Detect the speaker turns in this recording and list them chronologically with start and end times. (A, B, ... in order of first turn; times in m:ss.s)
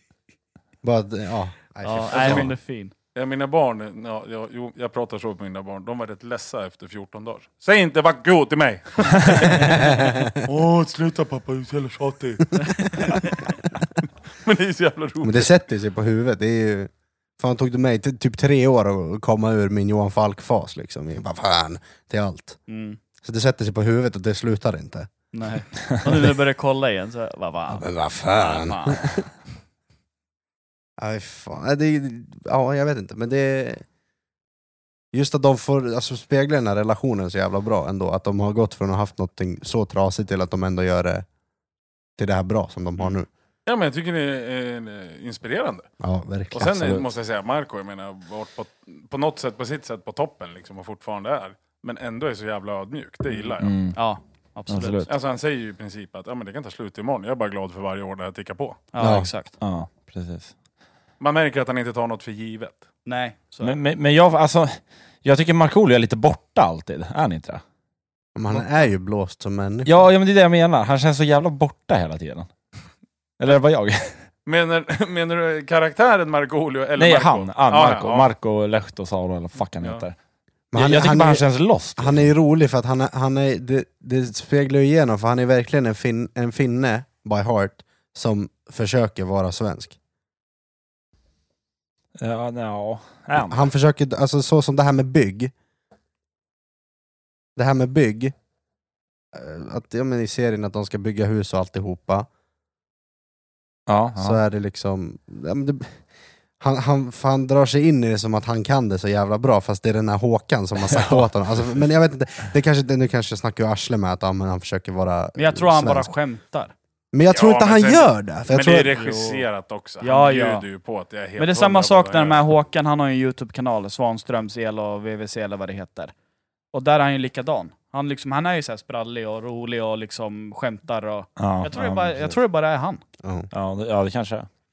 0:00.8-0:02.5 A
0:01.8-0:02.9 B
0:02.1-0:02.4 C
0:03.2-0:15.5 C
0:09.5-0:10.4 A
0:12.8-0:13.4 B
0:15.2-0:22.6 A
0:22.7-0:23.0 B
0:23.2-0:25.1 A
0:25.3-0:29.0 B
0:27.7-0:29.3 A
0:31.0-0:33.8 A
0:35.1-0:41.3 A
0:42.2-0:43.3 A
0:43.7-0:45.9 C
0:46.0-0:46.9 A
0:46.5-0:53.7 C
0:46.6-0:47.0 D
0:53.3-0:55.1 B
0:53.6-0:54.0 D
0:54.7-0:55.1 D
0:55.1-0:58.8 C
0:58.9-0:59.5 B
0:59.0-0:59.3 A
0:59.6-1:00.5 D
1:01.2-1:02.8 C
1:03.1-1:03.8 B
1:03.6-1:07.6 D
1:08.4-1:10.1 A
1:09.8-1:12.5 D
1:13.4-1:14.2 D
1:14.5-1:18.3 C
1:17.0-1:20.2 D
1:20.7-1:21.5 A
1:20.8-1:22.3 D
1:22.0-1:30.0 A
1:32.2-1:33.7 D
1:33.4-1:35.5 A
1:37.6-1:38.3 A
1:39.3-1:42.3 A
1:43.9-1:44.4 D
1:44.2-1:46.0 A
1:46.6-1:56.1 A
1:50.9-1:51.2 D
1:55.4-1:56.7 B
1:57.1-1:58.9 A
1:57.3-2:02.4 C
1:58.9-1:59.4 B
2:00.0-2:00.6 B
2:01.4-2:06.1 B
2:06.7-2:13.0 B
2:11.4-2:12.4 D
2:13.2-2:13.5 A
2:13.5-2:14.5 D